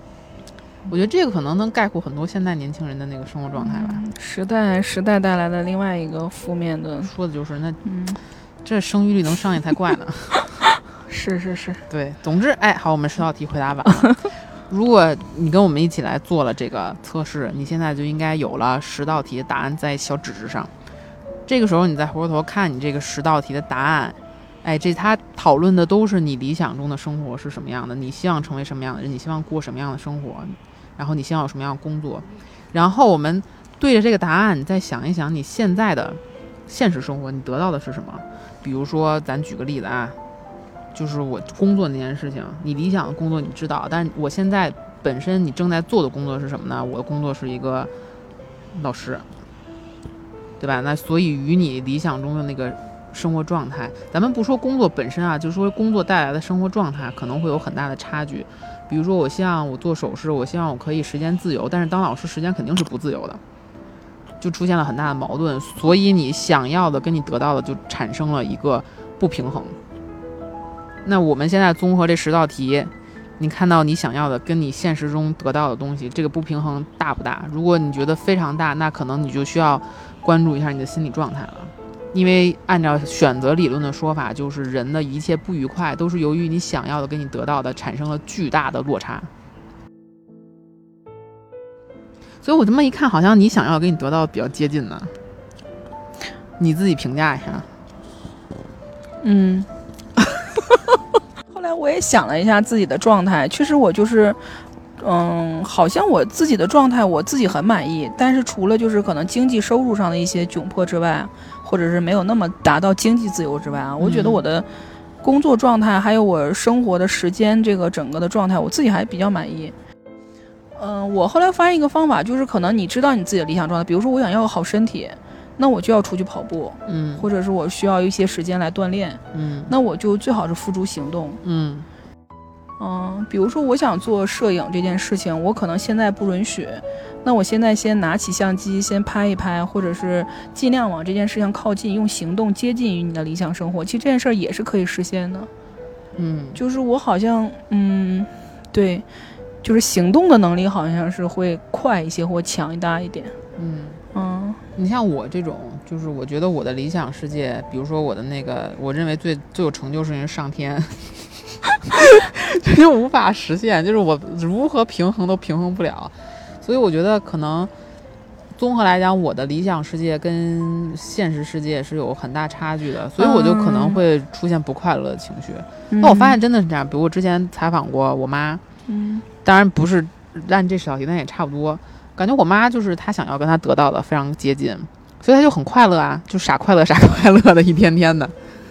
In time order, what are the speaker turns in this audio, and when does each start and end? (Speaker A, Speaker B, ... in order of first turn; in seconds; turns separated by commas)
Speaker A: 0.9-4.0, Speaker B: 3.6-7.1, Speaker A: 7.0-7.8, Speaker B: 7.8-8.2, Speaker A: 8.6-10.5, Speaker B: 11.1-11.8, Speaker A: 11.9-20.7, Speaker A: 21.5-40.2, Speaker A: 40.9-47.9, Speaker A: 48.7-49.3, Speaker A: 50.6-63.4, Speaker A: 64.4-69.8, Speaker A: 71.0-89.3, Speaker A: 92.4-95.2, Speaker A: 96.6-97.7, Speaker B: 99.2-99.7, Speaker B: 101.5-114.7, Speaker A: 114.0-114.4, Speaker B: 115.2-119.8, Speaker B: 120.8-131.4, Speaker A: 126.9-127.3, Speaker A: 129.3-129.7, Speaker A: 131.4-131.9, Speaker B: 132.8-145.5, Speaker A: 146.2-146.6, Speaker B: 146.6-149.1, Speaker B: 149.6-153.4, Speaker A: 153.6-154.0, Speaker B: 154.1-154.6, Speaker A: 154.8-167.7, Speaker A: 168.6-178.6, Speaker B: 173.2-174.0, Speaker B: 175.9-176.4, Speaker B: 178.9-179.2, Speaker A: 179.4-188.3